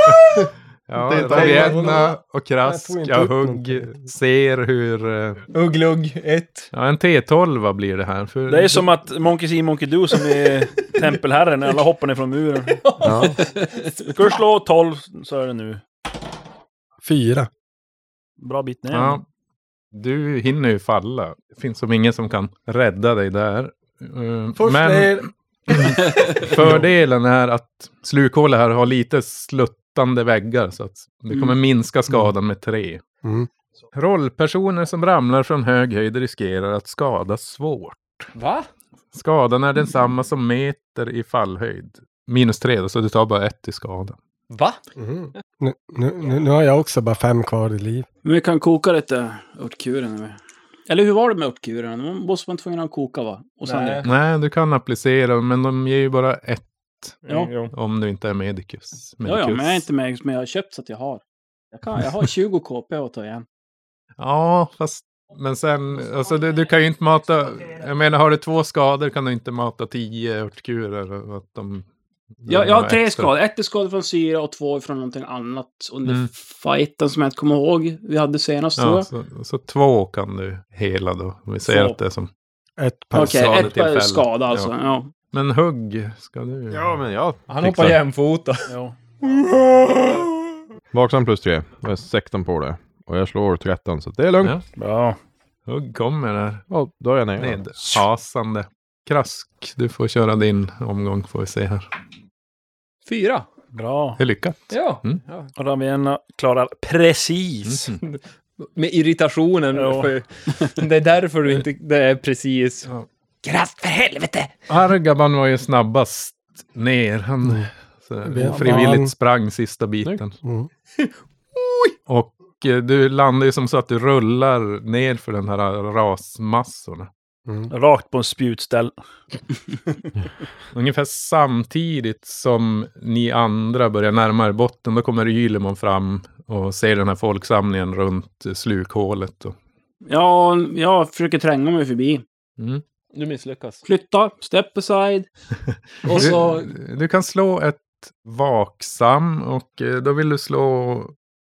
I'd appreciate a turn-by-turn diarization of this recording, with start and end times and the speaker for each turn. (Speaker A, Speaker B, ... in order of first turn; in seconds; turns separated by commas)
Speaker A: 0.9-5.4, Speaker B: 1.1-2.0, Speaker C: 1.2-3.9, Speaker D: 5.5-6.7, Speaker A: 6.7-8.9, Speaker E: 8.5-12.8, Speaker D: 12.8-14.1, Speaker B: 13.0-13.4, Speaker E: 14.1-15.8, Speaker C: 17.0-17.5, Speaker E: 18.4-19.2, Speaker A: 18.9-19.2, Speaker A: 19.9-33.0, Speaker C: 24.6-25.3, Speaker C: 26.6-26.8, Speaker A: 33.9-38.3, Speaker D: 38.4-38.7, Speaker A: 39.1-44.2, Speaker D: 44.5-44.8, Speaker C: 45.0-48.1, Speaker F: 48.2-50.4, Speaker F: 50.9-54.1, Speaker D: 53.7-54.1, Speaker A: 54.0-57.2, Speaker D: 57.3-57.7, Speaker A: 57.7-59.9, Speaker F: 59.2-61.2, Speaker F: 61.7-63.5, Speaker A: 64.2-71.9, Speaker A: 72.4-73.3, Speaker F: 72.5-79.1, Speaker A: 78.8-82.3, Speaker F: 81.7-82.0, Speaker C: 82.8-83.5, Speaker F: 83.1-85.1, Speaker A: 83.1-84.7, Speaker A: 85.3-87.0, Speaker B: 86.7-87.4, Speaker D: 87.5-88.7, Speaker A: 87.6-88.0, Speaker E: 88.7-89.0, Speaker D: 89.2-90.3, Speaker B: 90.9-94.6, Speaker E: 94.8-95.2, Speaker A: 95.7-96.7, Speaker B: 96.7-97.6, Speaker A: 97.4-101.9, Speaker D: 103.1-103.5, Speaker E: 103.7-104.2, Speaker A: 104.2-105.2, Speaker D: 104.7-105.5, Speaker E: 105.6-107.9, Speaker A: 107.7-108.0, Speaker D: 108.0-112.9, Speaker E: 109.7-110.1, Speaker D: 113.4-114.5, Speaker A: 114.7-120.3, Speaker C: 118.2-119.1, Speaker C: 120.4-120.7, Speaker D: 121.0-121.9, Speaker A: 122.1-127.1, Speaker E: 127.7-128.9, Speaker A: 130.7-139.6, Speaker F: 140.1-142.2, Speaker D: 143.1-143.8, Speaker F: 143.8-145.3, Speaker F: 146.0-146.7, Speaker A: 146.0-151.1